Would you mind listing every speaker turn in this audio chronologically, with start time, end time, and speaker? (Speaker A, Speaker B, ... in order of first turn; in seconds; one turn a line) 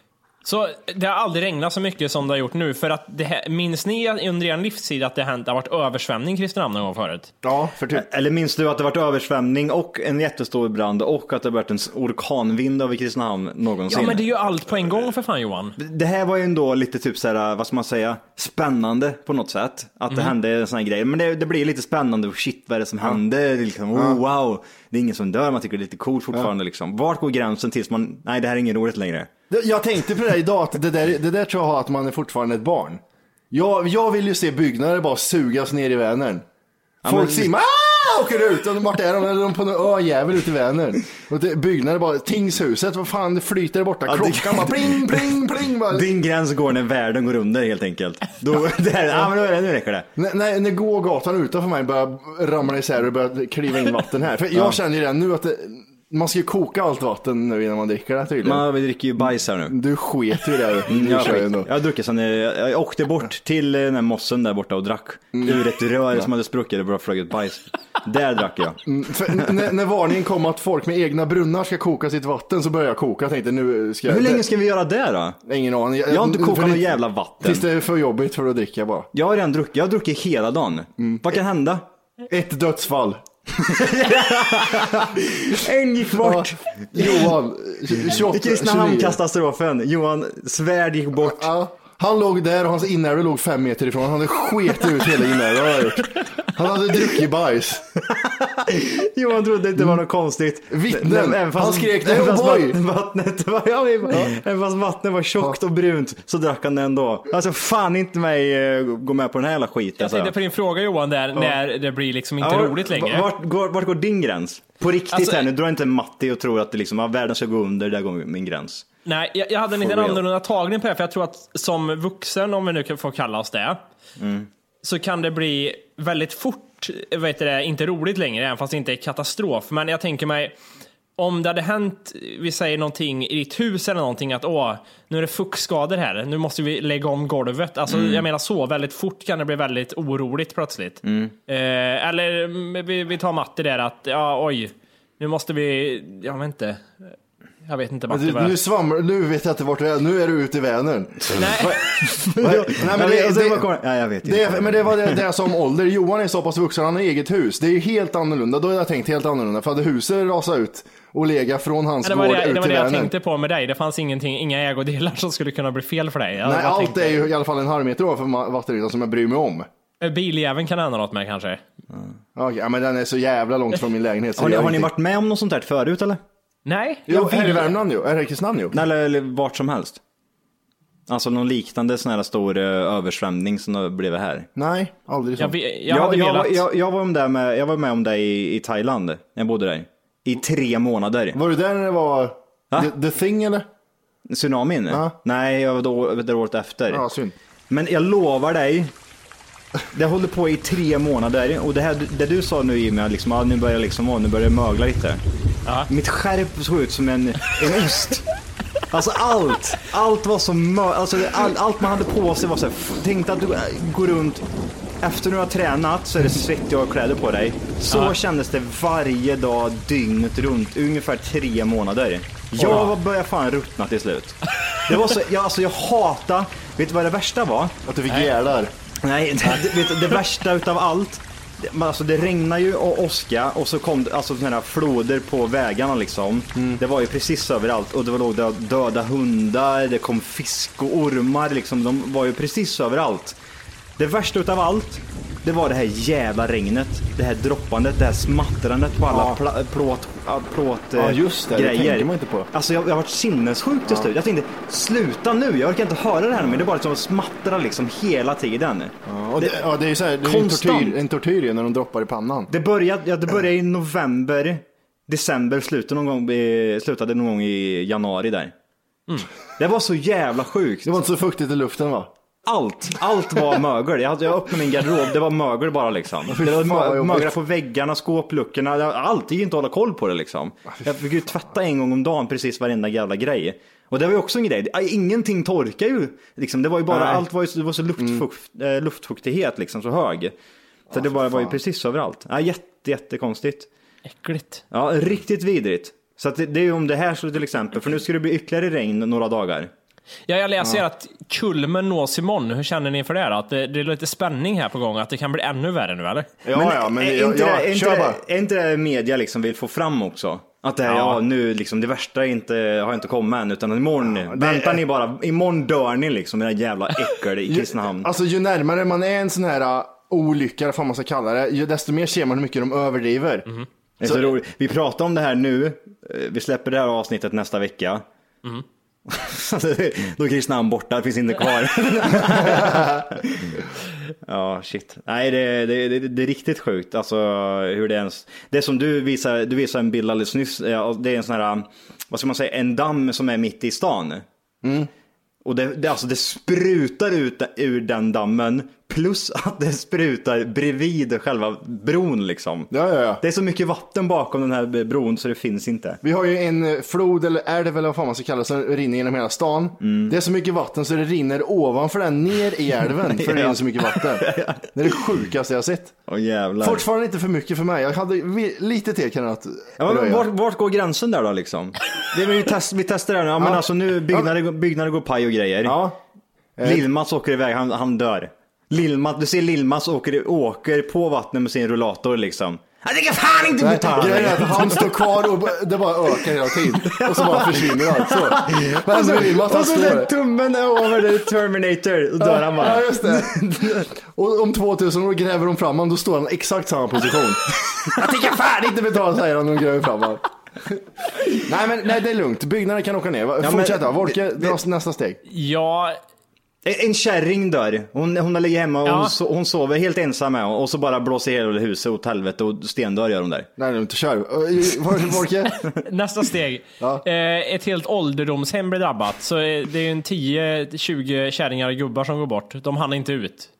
Speaker A: 0.4-7.3
Speaker B: 7.4-8.1
Speaker C: 7.9-14.2
Speaker A: 13.9-15.8
Speaker C: 15.8-29.3
Speaker B: 23.9-24.2
Speaker B: 29.5-33.0
Speaker B: 33.5-36.4
Speaker C: 37.0-37.5
Speaker B: 37.0-46.1
Speaker C: 44.0-50.1
Speaker B: 50.1-58.6
Speaker C: 54.5-54.8
Speaker C: 58.4-59.8
Speaker B: 59.7-61.7
Speaker C: 60.9-68.8
Speaker B: 65.3-65.6
Speaker B: 68.8-74.4
Speaker C: 74.0-75.4
Speaker B: 75.5-79.1
Speaker C: 76.1-77.7
Speaker C: 79.1-81.8
Speaker B: 81.0-81.4
Speaker B: 82.3-83.8
Speaker C: 83.6-87.3
Speaker B: 86.2-89.2
Speaker C: 87.9-91.5
Speaker B: 91.2-97.9
Speaker C: 98.0-110.3
Speaker B: 100.7-102.8
Speaker B: 104.1-104.3
Speaker A: 110.0-113.3
Speaker C: 112.4-118.8
Speaker A: 115.1-115.5
Speaker A: 119.0-123.8
Speaker C: 119.7-120.2
Speaker C: 124.2-124.5
Speaker A: 124.8-130.6
Speaker A: 131.2-148.5
Speaker C: 137.9-138.2
Speaker C: 141.0-141.3
Speaker B: 148.1-151.4
Speaker C: 151.3-155.2
Speaker A: 151.3-151.8
Speaker B: 152.4-153.7
Speaker B: 154.2-163.1
Speaker A: 162.0-167.2
Speaker B: 166.4-169.7
Speaker A: 170.0-171.6
Speaker B: 172.3-174.9
Speaker C: 174.3-176.2
Speaker A: 176.7-177.7
Speaker B: 177.1-178.8
Speaker C: 178.7-180.0
Speaker C: 181.1-184.5
Speaker B: 184.6-185.6
Speaker A: 185.4-186.6
Speaker C: 185.9-191.4
Speaker B: 191.3-193.7
Speaker C: 194.3-197.0
Speaker B: 194.9-195.1
Speaker B: 196.9-197.3
Speaker C: 197.7-198.9
Speaker C: 199.9-205.2
Speaker C: 205.9-208.2
Speaker C: 208.9-214.4
Speaker C: 215.0-227.7
Speaker B: 222.6-222.9
Speaker A: 222.6-222.9
Speaker B: 227.8-228.7
Speaker C: 229.0-243.4
Speaker B: 236.5-236.8
Speaker C: 244.0-259.6
Speaker B: 249.1-249.4
Speaker B: 250.9-252.5
Speaker B: 259.1-262.5
Speaker C: 260.2-261.0
Speaker C: 262.5-268.5
Speaker C: 269.6-271.0
Speaker B: 270.8-272.1
Speaker C: 272.4-290.3
Speaker B: 276.3-277.3
Speaker B: 286.9-287.2
Speaker B: 288.0-288.2
Speaker C: 290.9-293.7
Speaker B: 290.9-291.6
Speaker A: 294.1-294.6
Speaker C: 294.7-299.7
Speaker A: 300.3-306.3
Speaker B: 306.4-308.2
Speaker C: 306.5-318.1
Speaker B: 310.9-311.2
Speaker B: 314.1-314.8
Speaker B: 317.5-323.5
Speaker C: 324.0-328.0
Speaker B: 324.0-324.3
Speaker C: 329.1-333.6
Speaker C: 334.2-344.2
Speaker B: 344.6-344.9
Speaker C: 345.4-356.0
Speaker B: 352.7-353.2
Speaker B: 356.0-365.9
Speaker C: 359.8-360.1
Speaker C: 363.1-365.0
Speaker C: 366.1-366.8
Speaker B: 366.6-370.2
Speaker C: 369.8-375.8
Speaker B: 373.4-374.3
Speaker B: 375.6-376.0
Speaker B: 376.6-376.8
Speaker C: 376.6-385.4
Speaker B: 383.6-390.1
Speaker C: 386.2-393.9
Speaker B: 392.2-405.2
Speaker C: 403.4-404.6
Speaker A: 405.3-406.0
Speaker C: 406.6-413.5
Speaker A: 408.9-409.1
Speaker B: 413.6-415.6
Speaker A: 415.8-423.5